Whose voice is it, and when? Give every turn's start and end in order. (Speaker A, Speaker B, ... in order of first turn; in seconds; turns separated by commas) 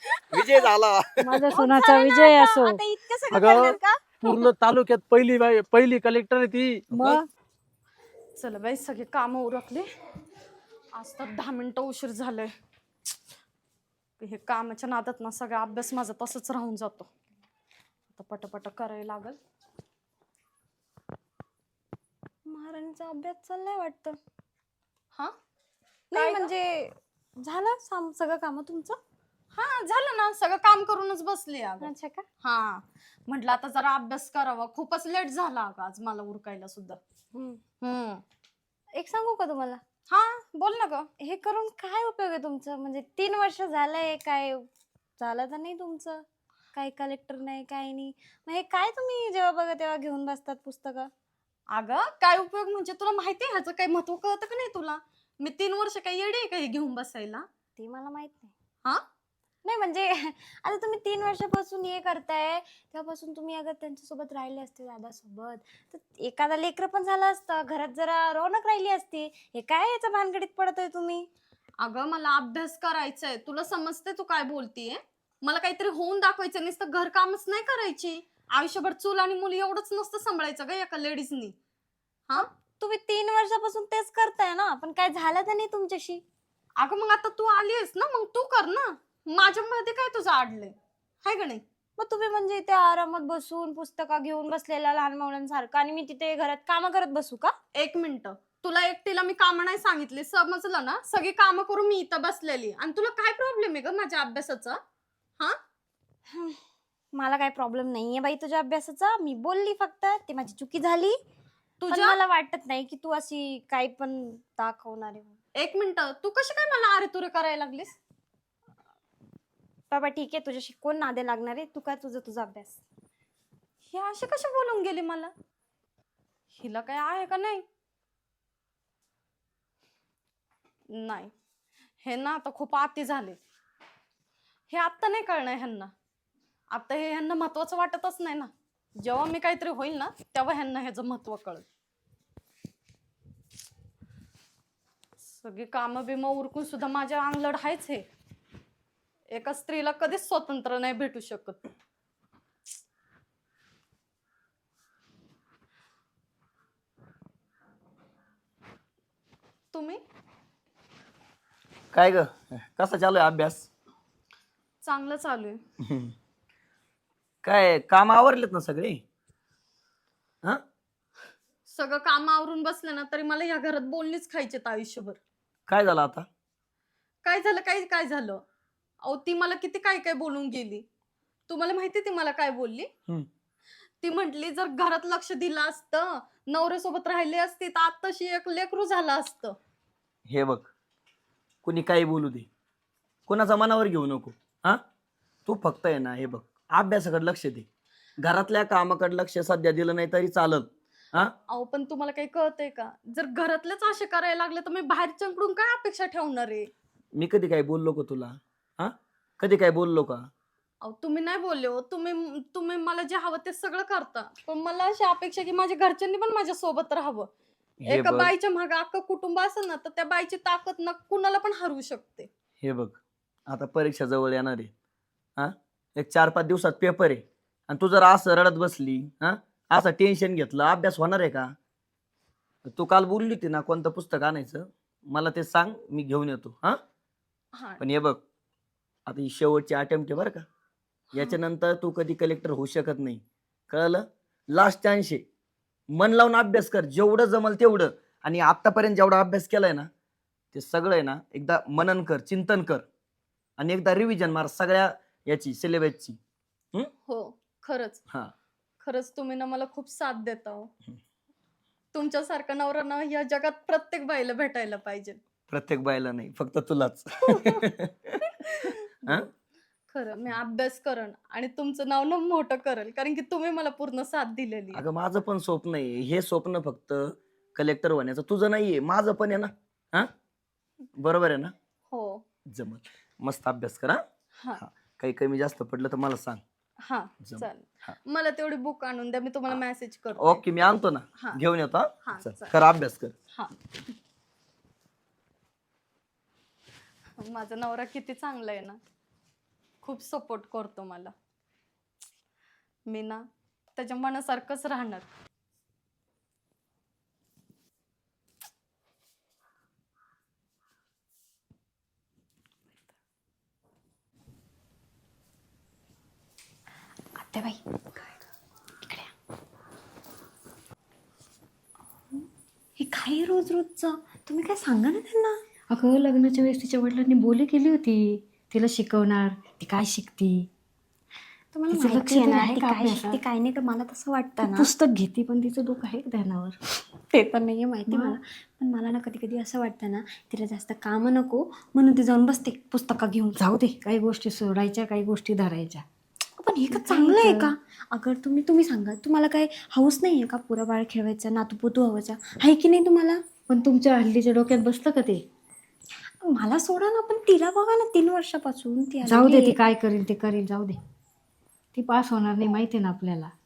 Speaker A: 0.3-1.4, Speaker B: 1.2-2.8, Speaker C: 1.5-4.4, Speaker D: 3.3-3.8, Speaker D: 4.3-7.2, Speaker B: 6.9-7.3, Speaker E: 8.4-9.9, Speaker E: 11.0-12.5, Speaker E: 14.2-17.1, Speaker E: 18.1-19.4, Speaker C: 22.5-24.2, Speaker C: 26.1-29.0, Speaker E: 26.1-26.5, Speaker E: 29.5-37.0, Speaker C: 31.8-32.3, Speaker C: 37.3-37.6, Speaker E: 37.8-38.2, Speaker C: 39.0-39.8, Speaker E: 40.1-41.1, Speaker C: 41.2-44.7, Speaker C: 45.2-51.1, Speaker E: 51.7-57.5, Speaker C: 57.8-58.5, Speaker C: 59.6-71.3, Speaker E: 71.8-81.5, Speaker C: 82.4-86.2, Speaker E: 86.8-91.6, Speaker C: 92.0-97.6, Speaker E: 97.8-104.8, Speaker C: 106.3-106.6, Speaker C: 107.2-111.2, Speaker E: 111.8-112.2, Speaker C: 111.9-115.4, Speaker E: 115.6-118.0, Speaker C: 119.9-122.8, Speaker E: 123.9-125.3, Speaker E: 126.5-127.7, Speaker E: 130.9-131.3, Speaker E: 132.0-133.4, Speaker E: 134.7-135.9, Speaker E: 136.7-141.7, Speaker E: 145.2-148.1, Speaker E: 149.3-151.7, Speaker E: 159.7-160.0, Speaker A: 161.9-163.7, Speaker E: 164.8-165.6, Speaker A: 165.8-166.1, Speaker A: 167.4-169.0, Speaker E: 171.7-175.2, Speaker A: 175.7-176.3, Speaker E: 177.2-178.4, Speaker E: 179.0-180.8, Speaker E: 181.5-182.9, Speaker E: 184.0-189.6, Speaker A: 190.3-190.7, Speaker A: 191.6-192.5, Speaker A: 193.3-194.8, Speaker A: 195.5-197.7, Speaker A: 198.2-201.3, Speaker E: 201.5-206.7, Speaker A: 207.2-210.3, Speaker E: 210.8-217.3, Speaker A: 217.8-218.3, Speaker E: 217.9-222.3, Speaker A: 222.6-224.7, Speaker A: 225.4-231.5, Speaker A: 232.8-236.8, Speaker E: 237.6-237.8, Speaker A: 237.8-238.2, Speaker A: 239.1-240.5, Speaker A: 241.1-245.2, Speaker A: 245.9-249.9, Speaker A: 250.5-252.8, Speaker A: 253.6-256.2, Speaker E: 257.1-258.0, Speaker E: 258.8-260.7, Speaker E: 261.9-265.2, Speaker A: 265.5-268.1, Speaker E: 267.3-267.6, Speaker E: 268.6-269.3, Speaker E: 269.9-274.8, Speaker A: 274.7-280.1, Speaker A: 281.0-281.5, Speaker E: 281.9-282.2, Speaker A: 282.5-284.0, Speaker A: 284.6-286.4, Speaker E: 286.9-290.4, Speaker A: 287.2-288.0, Speaker A: 290.2-293.1, Speaker E: 292.1-292.5, Speaker E: 297.2-298.8, Speaker E: 299.8-301.1, Speaker E: 302.9-305.1, Speaker C: 317.2-318.1, Speaker C: 318.8-319.1, Speaker C: 322.8-325.4, Speaker B: 325.7-330.5, Speaker C: 331.5-334.7, Speaker B: 331.7-333.2, Speaker B: 334.4-336.6, Speaker C: 337.1-343.4, Speaker B: 337.9-338.2, Speaker B: 343.4-345.9, Speaker C: 346.4-353.2, Speaker B: 346.7-347.5, Speaker B: 353.5-355.2, Speaker C: 356.2-359.6, Speaker B: 359.1-360.8, Speaker B: 361.7-363.3